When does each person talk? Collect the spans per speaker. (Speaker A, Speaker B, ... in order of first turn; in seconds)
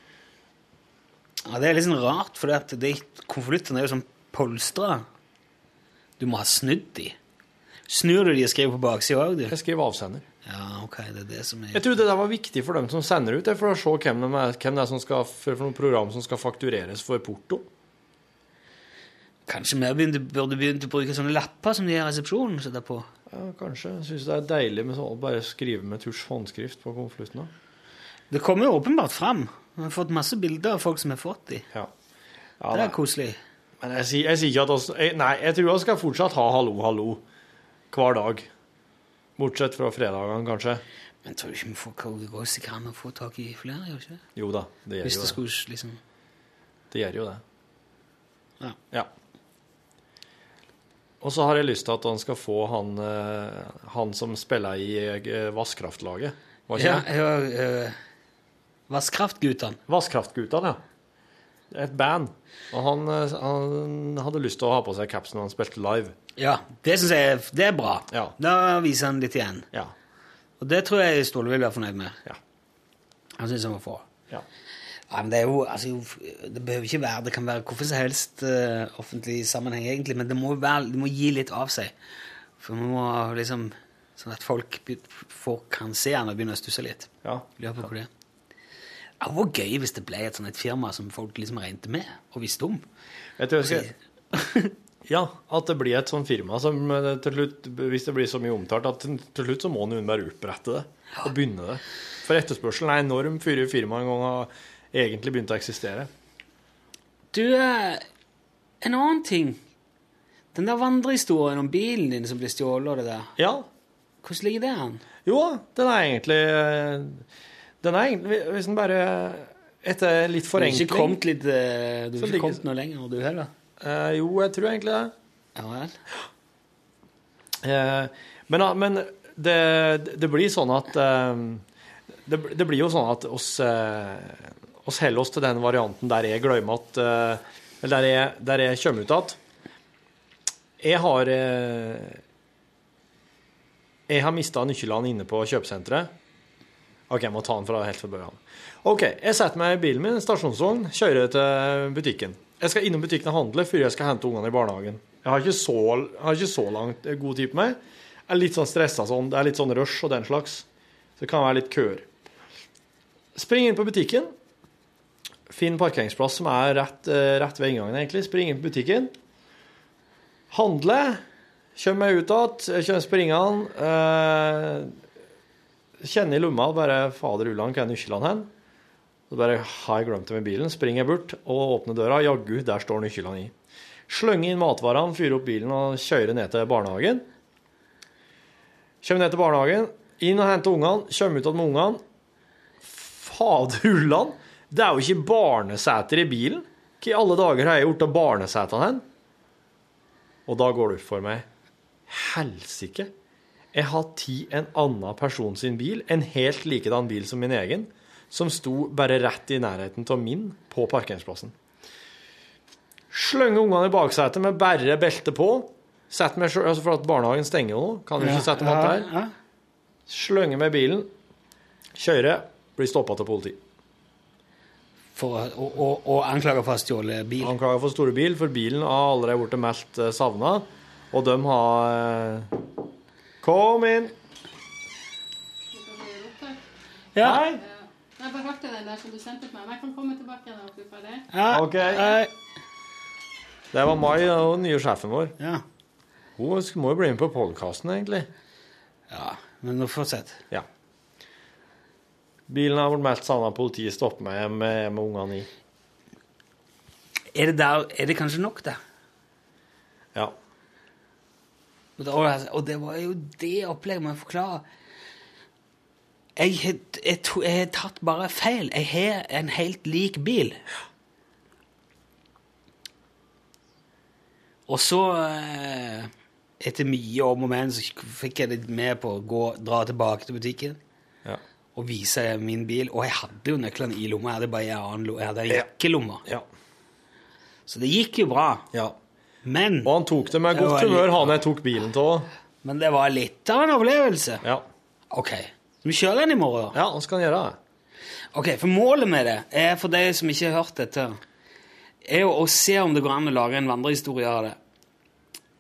Speaker A: 1.5-5.1, 6.2-7.2, 7.9-9.6, 10.4-12.0, 19.5-23.1, 28.3-31.7, 32.7-33.4, 41.2-44.2, 45.0-46.0, 56.8-58.0, 58.9-59.8, 66.4-69.7, 70.6-72.2, 73.4-74.1, 75.1-81.9, 82.6-88.1, 89.2-92.8, 93.6-94.7, 107.3-108.0, 108.8-109.6, 110.5-113.3, 114.2-115.0, 120.6-123.5, 125.6-126.0, 218.2-219.3, 225.2-227.5, 237.2-237.4, 241.3-242.3, 249.1-250.4, 257.3-258.8, 262.0-264.6, 266.4-270.6, 274.7-280.8, 281.8-286.2, 287.7-288.7, 289.4-289.9, 290.5-291.4, 292.6-294.4, 295.1-296.8, 298.3-301.2, 302.1-304.6
Speaker B: 9.5-10.2, 11.7-17.7, 23.3-27.5, 32.6-33.0, 33.8-37.2, 37.9-38.5, 39.4-40.8, 44.4-45.4, 46.9-47.4, 51.2-57.1, 59.9-60.8, 61.7-66.2, 93.4-93.9, 95.1-106.1, 113.4-113.7, 115.2-117.2, 117.8-121.2, 122.2-122.6, 123.8-125.1, 127.6-131.6, 132.3-139.4, 140.8-142.2, 144.1-146.1, 147.1-160.7, 161.2-162.1, 163.3-164.3, 165.5-169.1, 170.5-171.2, 171.8-175.0, 176.0-178.5, 179.3-183.5, 184.1-187.3, 189.0-192.0, 192.8-199.1, 200.5-201.5, 202.1-203.1, 203.7-211.5, 213.1-219.1, 220.1-221.1, 222.0-223.6, 227.4-232.6, 233.4-234.1, 237.2-237.6, 241.5-242.1, 243.7-245.3, 246.4-248.3, 252.5-255.5, 289.8-292.3, 296.7-297.6
Speaker C: 235.7-236.6, 237.6-241.3